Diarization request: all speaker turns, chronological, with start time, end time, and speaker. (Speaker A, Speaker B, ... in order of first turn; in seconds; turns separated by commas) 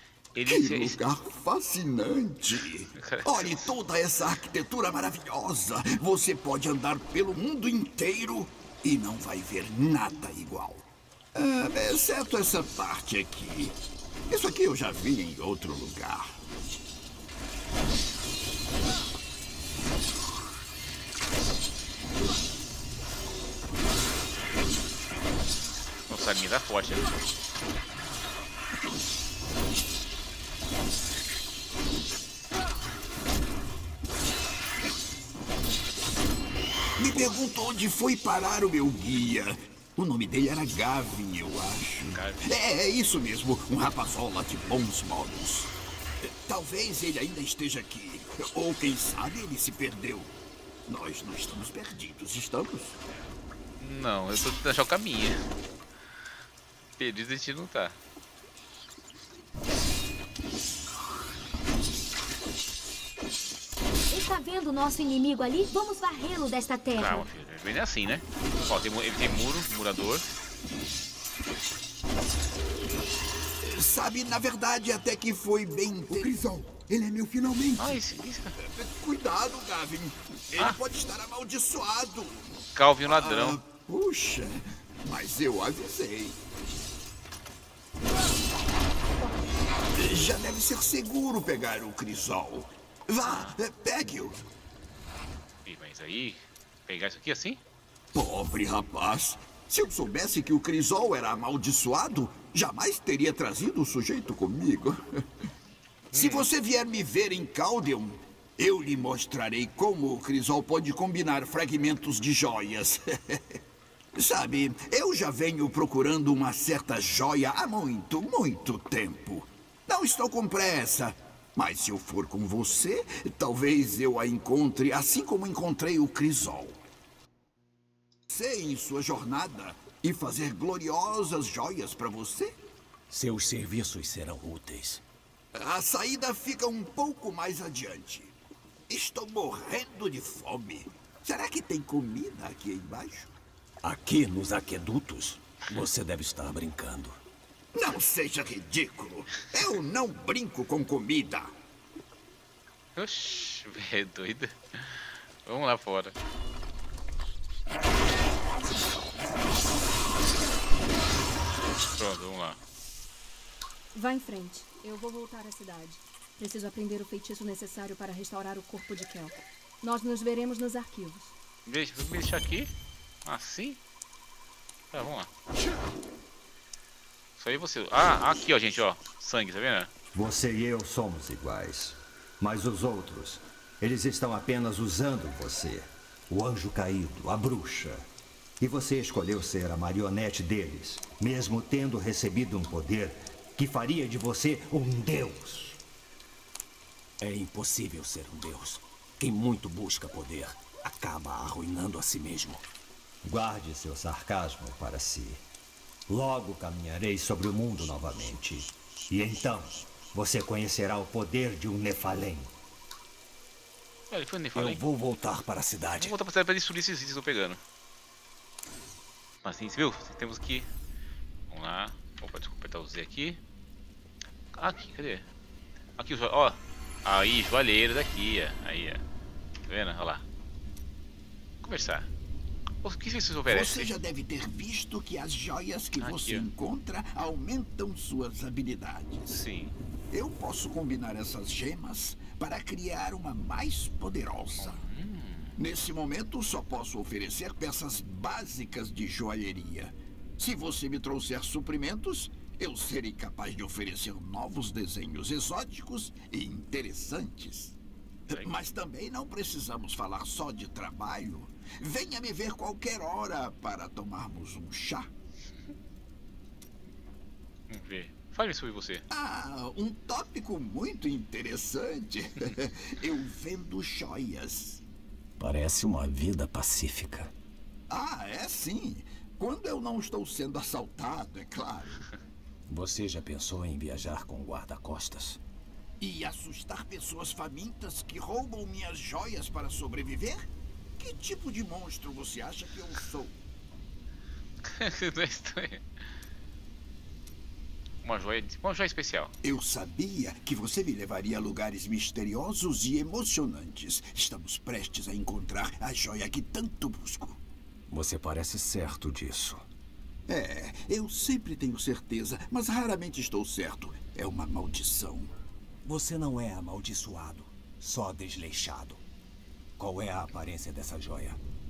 Speaker A: 0.3-1.1, Speaker B: 0.5-13.8, Speaker A: 3.0-3.8, Speaker B: 14.3-16.3, Speaker A: 26.1-27.2, Speaker B: 37.0-50.3, Speaker A: 42.1-42.4, Speaker B: 50.9-53.0, Speaker A: 53.8-55.4, Speaker A: 57.0-58.0, Speaker C: 64.1-67.3, Speaker A: 67.0-70.3, Speaker B: 73.6-78.0, Speaker A: 77.8-78.5, Speaker B: 78.6-86.4, Speaker A: 82.7-83.6, Speaker C: 89.2-89.4, Speaker B: 89.9-94.4, Speaker A: 93.2-93.6, Speaker A: 95.6-97.6, Speaker B: 98.1-105.0, Speaker A: 106.1-106.5, Speaker B: 106.1-113.4, Speaker B: 114.1-126.8, Speaker B: 128.3-132.6, Speaker D: 133.1-135.0, Speaker B: 135.5-138.3, Speaker B: 138.9-143.3, Speaker D: 143.8-147.2, Speaker B: 147.7-151.5, Speaker A: 152.9-156.1, Speaker A: 161.9-162.6, Speaker E: 163.9-171.3, Speaker A: 171.7-172.7, Speaker A: 173.2-173.8, Speaker A: 174.9-175.3, Speaker A: 177.4-179.9, Speaker F: 180.1-188.0, Speaker F: 188.6-195.8, Speaker D: 197.2-202.6, Speaker F: 203.2-205.4, Speaker F: 206.1-212.5, Speaker A: 214.1-214.8, Speaker D: 214.5-216.2, Speaker A: 216.0-217.6, Speaker A: 219.4-220.7, Speaker A: 221.5-223.4, Speaker A: 224.5-225.2, Speaker A: 226.0-229.0, Speaker A: 229.7-230.2, Speaker A: 231.6-232.1, Speaker A: 232.8-233.9, Speaker B: 233.5-239.2, Speaker A: 236.0-236.4, Speaker A: 239.2-239.7, Speaker B: 240.1-244.9, Speaker A: 244.6-245.6, Speaker B: 245.6-257.8, Speaker B: 258.3-265.1, Speaker A: 267.7-269.0, Speaker B: 269.1-274.8, Speaker D: 275.4-277.3, Speaker B: 277.9-282.0, Speaker D: 282.7-285.4, Speaker B: 286.0-293.3, Speaker A: 294.6-295.8, Speaker A: 298.0-299.3, Speaker B: 299.4-307.4, Speaker D: 307.9-309.6, Speaker B: 310.3-315.3, Speaker D: 315.8-319.0, Speaker D: 319.8-321.4